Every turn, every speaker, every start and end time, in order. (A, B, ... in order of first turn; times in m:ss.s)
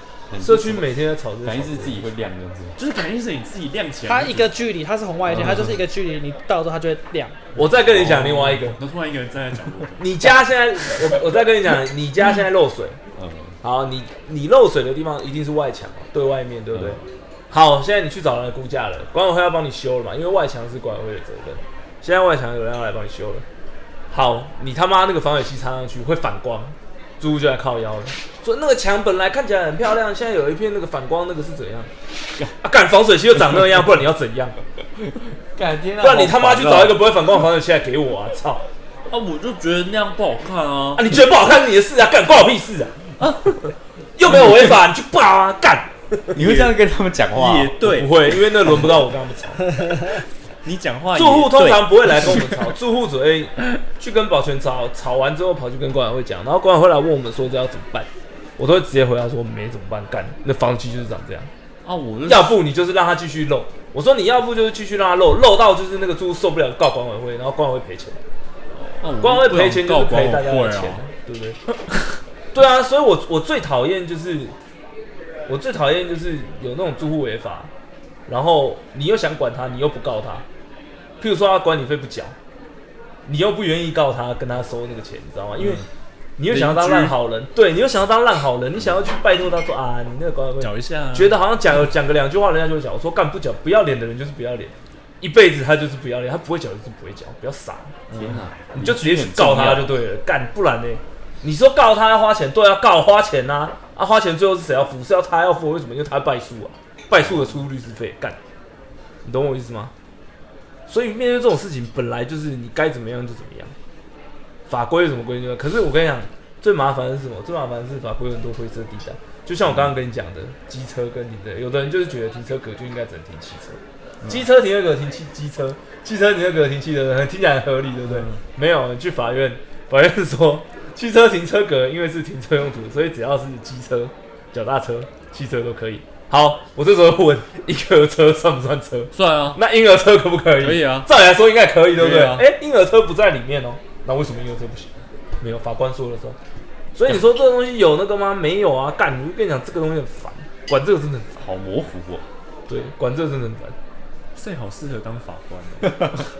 0:00.3-0:00.9 A
0:00.4-0:02.0 B
0:01.4-0:02.8 A
0:02.8-0:04.5 C
0:04.1-0:07.4 D
0:05.4-0:05.6 A
0:07.5-0:08.8 B
0:07.8-0:10.1 C
0:10.0-0:13.0 B
0:13.2-0:13.6 A
0:13.6-0:23.4 B
0:16.7-0:17.0 A
0:24.1-0:31.9 B
0:32.6-0:34.6 B
0:35.6-0:37.0 A
0:36.0-0:38.6 B
0:39.1-0:41.0 C
0:40.9-0:43.1 B
0:43.2-0:43.6 C
0:43.6-0:46.6 B
0:46.3-0:47.8 A
0:46.4-0:46.7 C
0:47.3-0:48.3 C
0:47.8-0:49.9 B
0:50.6-0:51.8 C
0:51.1-1:01.5 B
1:01.8-1:02.6 C
1:02.2-1:08.2 B
1:08.8-1:11.1 C
1:09.2-1:11.6 B
1:12.5-1:14.6 B
1:15.5-1:17.7 B
1:18.3-1:20.4 B
1:21.2-1:22.4 B
1:23.2-1:25.8 B
1:26.4-1:38.0 B
1:26.5-1:27.1 C
1:30.6-1:31.4 C
1:38.1-1:39.9 A
1:38.1-1:38.4 C
1:38.7-1:48.4 B
1:49.2-1:49.9 B
1:50.9-1:53.7 B
1:54.7-2:26.4 B
2:19.1-2:19.6 C
2:20.6-2:21.1 C
2:22.0-2:22.4 C
2:26.9-2:31.4 B
2:31.4-2:32.2 A
2:32.7-2:33.8 B
2:34.3-2:36.1 C
2:35.8-2:36.2 A